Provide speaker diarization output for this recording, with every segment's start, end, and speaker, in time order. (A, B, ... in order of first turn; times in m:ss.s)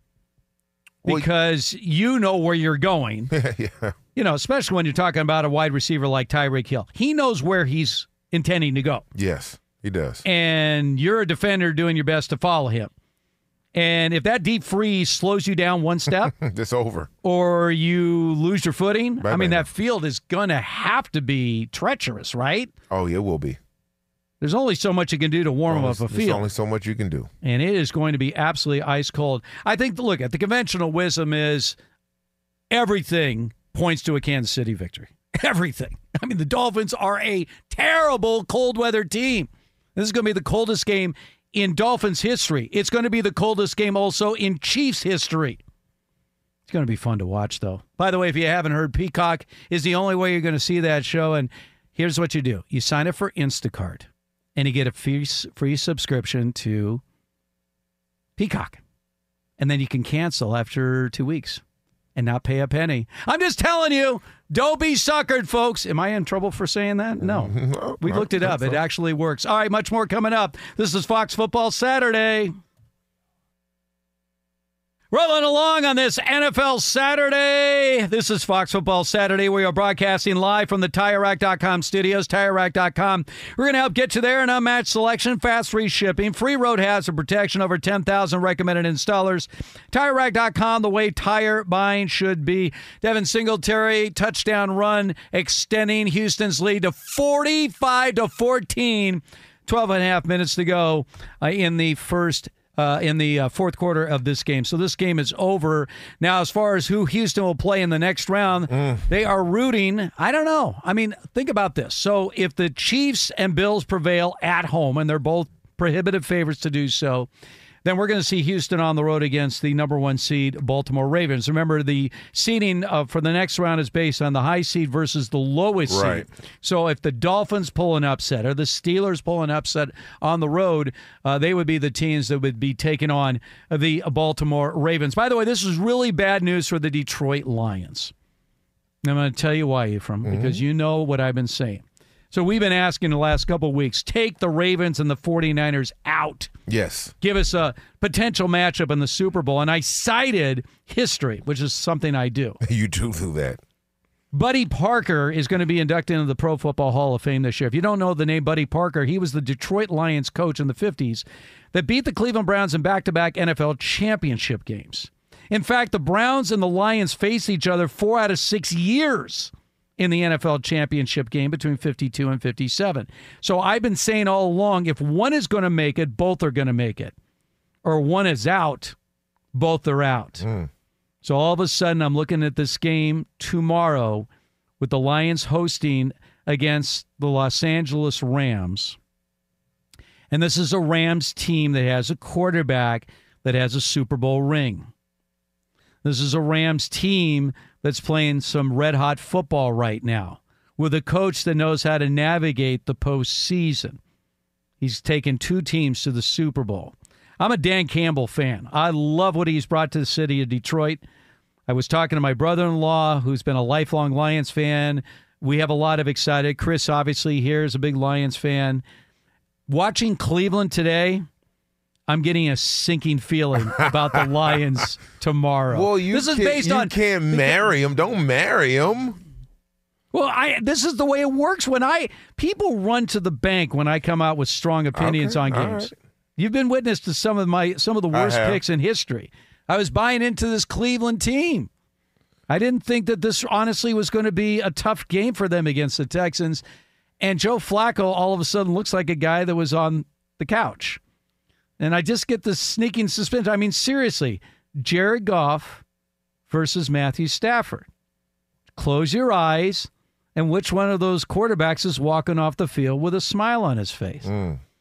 0:01.0-0:03.3 A
0:03.3-0:04.0 B
0:04.2-0:09.0 A
0:09.2-0:10.2 B
0:10.2-0:12.9 A
0:13.7-0:16.3 A
0:16.1-0:17.1 B
0:17.2-0:22.7 A
0:19.2-0:19.7 B
0:22.9-0:23.6 B
0:24.4-0:26.4 A
0:25.7-0:27.3 B
0:27.4-0:31.8 A
0:32.7-0:45.6 A
0:46.7-0:57.0 A
0:58.4-0:58.8 A
0:59.6-1:01.6 A
1:02.2-1:12.5 A
1:07.2-1:08.8 B
1:15.1-1:57.3 A
1:48.7-1:49.0 B
1:57.8-2:18.1 A
2:05.9-2:06.3 B
2:19.0-2:26.5 A
2:20.2-2:20.6 B
2:26.7-2:27.1 B
2:27.2-2:32.6 A
2:32.6-2:33.6 B
2:34.3-2:57.1 A
2:57.8-2:59.0 A
2:59.5-3:00.4 A
3:00.4-3:00.7 B
3:01.2-3:04.3 A
3:04.8-3:09.0 A
3:10.3-3:14.9 A
3:16.0-3:24.0 A
3:24.8-3:31.0 A
3:31.7-3:38.8 A
3:39.7-3:41.3 A
3:42.1-3:47.6 A
3:43.8-3:44.2 B
3:45.7-3:49.2 B
3:50.1-4:01.7 A
3:55.0-3:55.9 B
3:58.1-3:58.6 B
4:02.5-4:06.6 A
4:07.2-4:11.0 A
4:11.8-4:15.8 A
4:16.5-4:17.9 A
4:18.8-4:24.3 A
4:24.2-4:24.6 B